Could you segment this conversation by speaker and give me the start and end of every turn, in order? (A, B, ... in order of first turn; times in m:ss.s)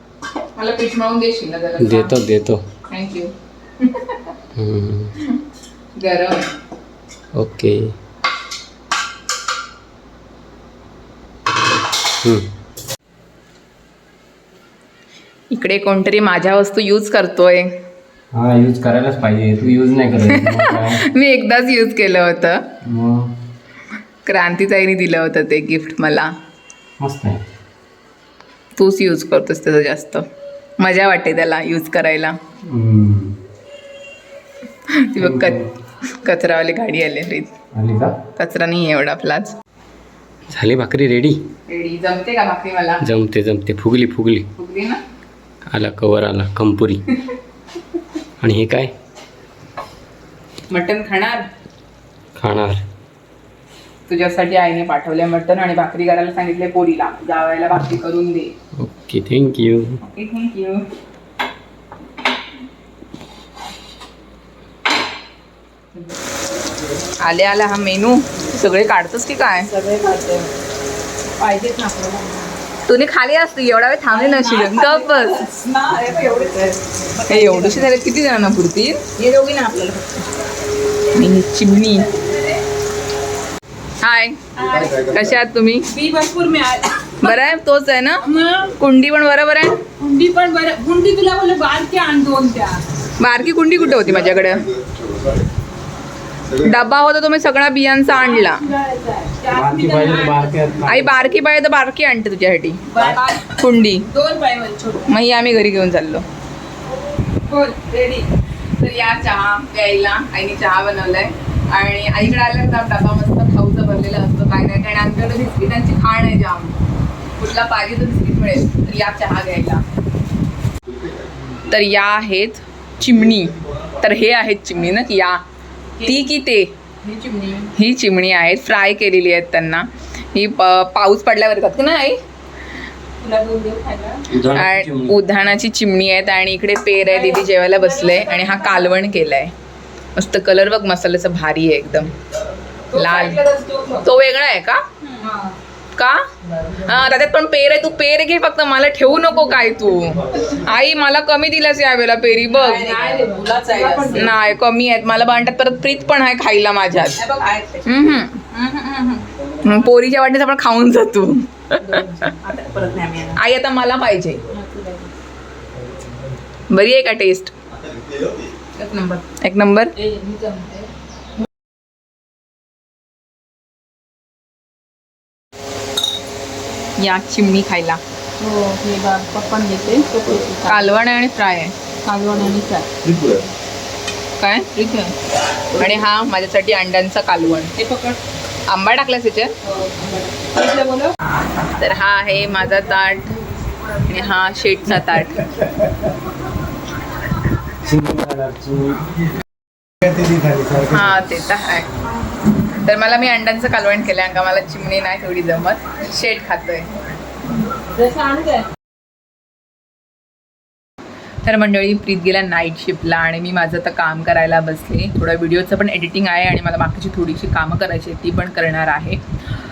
0:00.6-0:02.2 A
0:01.8-0:02.6 B
0:02.9-0:04.3 A
0:04.6-0:05.1 B
0:06.0-0:06.5 A
0:07.4-0:07.9 B
0:12.2-0:12.5 B
0:15.5-0:17.7 A
0:18.3-0:21.0 B
0:20.3-0:22.6 A
0:22.8-0:23.3 B
0:24.2-0:26.3 A
0:27.0-0:27.4 B
0:28.8-0:30.2 A
0:30.8-0:32.4 A
0:32.6-0:33.4 B
0:34.9-0:37.5 A
0:35.2-0:35.7 B
0:37.7-0:38.2 B
0:38.4-0:39.5 A
0:40.5-0:41.5 B
0:41.7-0:43.1 A
0:43.0-0:44.5 B
0:44.6-0:45.0 A
0:45.7-0:47.1 B
0:48.4-0:48.9 B
0:50.7-0:51.4 A
0:52.4-0:52.8 B
0:54.1-0:58.5 A
0:58.8-1:00.0 B
1:00.0-1:00.8 A
1:07.2-1:09.7 A
1:09.7-1:10.5 C
1:11.4-1:12.5 C
1:12.8-1:15.3 A
1:14.1-1:17.9 C
1:17.3-1:19.0 A
1:19.2-1:20.2 C
1:21.1-1:22.1 A
1:22.1-1:22.6 C
1:24.0-1:24.4 A
1:24.6-1:25.2 C
1:25.0-1:25.9 A
1:25.8-1:27.3 C
1:27.2-1:29.8 A
1:28.2-1:28.7 C
1:30.0-1:32.8 C
1:33.2-1:34.7 A
1:36.6-1:38.6 A
1:38.2-1:40.7 C
1:39.5-1:41.3 B
1:40.8-1:44.1 A
1:42.9-1:43.4 C
1:44.1-1:45.1 C
1:45.0-1:46.2 A
1:47.4-1:48.3 C
1:48.8-1:56.8 A
1:57.4-1:59.8 A
2:01.7-2:05.4 A
2:06.0-2:06.2 C
2:06.0-2:06.7 A
2:07.0-2:07.7 C
2:07.7-2:12.2 A
2:13.2-2:14.2 C
2:14.3-2:15.2 B
2:14.5-2:19.5 A
2:17.0-2:18.9 C
2:20.1-2:22.1 A
2:22.9-2:24.0 C
2:22.9-2:23.4 A
2:24.0-2:24.8 A
2:25.0-2:25.6 C
2:26.0-2:26.2 A
2:26.7-2:37.2 A
2:32.5-2:34.3 C
2:37.2-2:39.2 C
2:37.8-2:38.4 A
2:39.6-2:41.9 A
2:41.8-2:43.4 C
2:43.4-2:44.4 A
2:44.5-2:45.1 C
2:46.7-2:47.5 A
2:48.8-2:49.2 C
2:49.4-2:49.9 A
2:50.0-2:50.9 C
2:57.0-2:58.0 A
2:58.4-3:00.9 C
3:00.6-3:01.8 A
3:02.0-3:02.9 C
3:04.4-3:05.1 A
3:05.8-3:07.7 A
3:07.8-3:08.2 C
3:08.6-3:09.5 A
3:09.6-3:11.1 C
3:11.7-3:13.3 A
3:14.0-3:15.5 A
3:17.8-3:19.0 B
3:20.8-3:21.9 A
3:22.8-3:26.9 A
3:27.6-3:28.7 C
3:31.4-3:39.2 A